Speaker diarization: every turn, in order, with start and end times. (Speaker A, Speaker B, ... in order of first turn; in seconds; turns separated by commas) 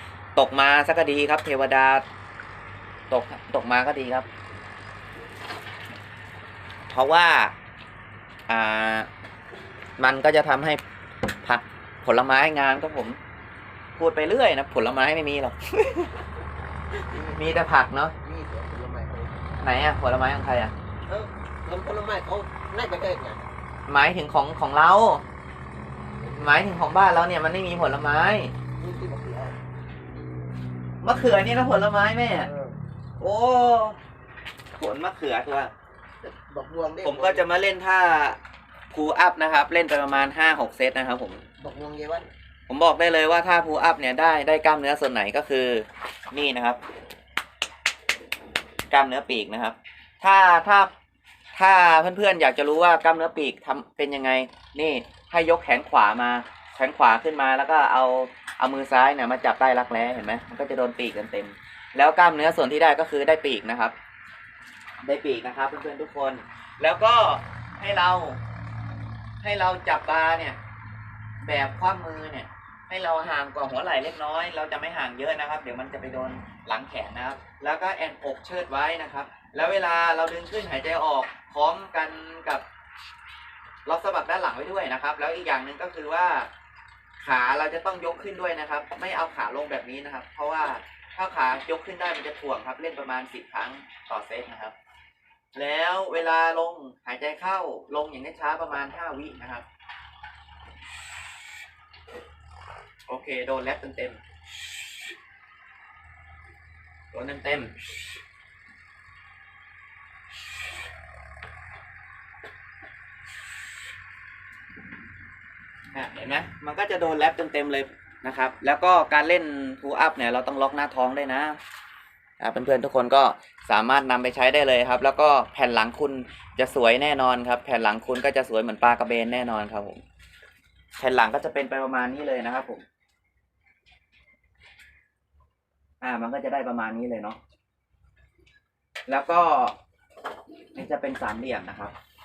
Speaker A: 0.4-2.0, Speaker A: 3.1-4.3, Speaker A: 6.9-7.5, Speaker A: 8.5-9.1, Speaker A: 10.0-10.8, Speaker A: 11.4-13.2, Speaker A: 14.0-16.1, Speaker A: 17.1-18.1, Speaker B: 17.1-17.5, Speaker B: 18.2-19.5, Speaker A: 19.6-20.7, Speaker B: 21.1-23.5, Speaker A: 23.9-25.2, Speaker B: 26.2-26.5, Speaker A: 26.4-28.5, Speaker B: 28.8-29.6, Speaker A: 31.0-32.5, Speaker B: 32.3-32.8, Speaker A: 33.2-34.0, Speaker A: 34.8-35.7, Speaker B: 36.2-37.5, Speaker A: 37.0-38.4, Speaker A: 38.9-41.4, Speaker B: 41.6-42.3, Speaker A: 42.7-46.8, Speaker A: 48.9-50.9, Speaker A: 51.5-63.9, Speaker A: 65.0-68.4, Speaker A: 69.4-70.6, Speaker A: 71.4-82.6, Speaker A: 83.8-86.5, Speaker A: 87.2-94.7, Speaker A: 95.5-99.7, Speaker A: 103.1-104.2, Speaker A: 107.1-107.7, Speaker A: 115.9-121.6, Speaker A: 122.4-130.0, Speaker A: 131.0-132.8, Speaker A: 136.0-137.4, Speaker A: 139.1-139.8, Speaker A: 140.8-141.9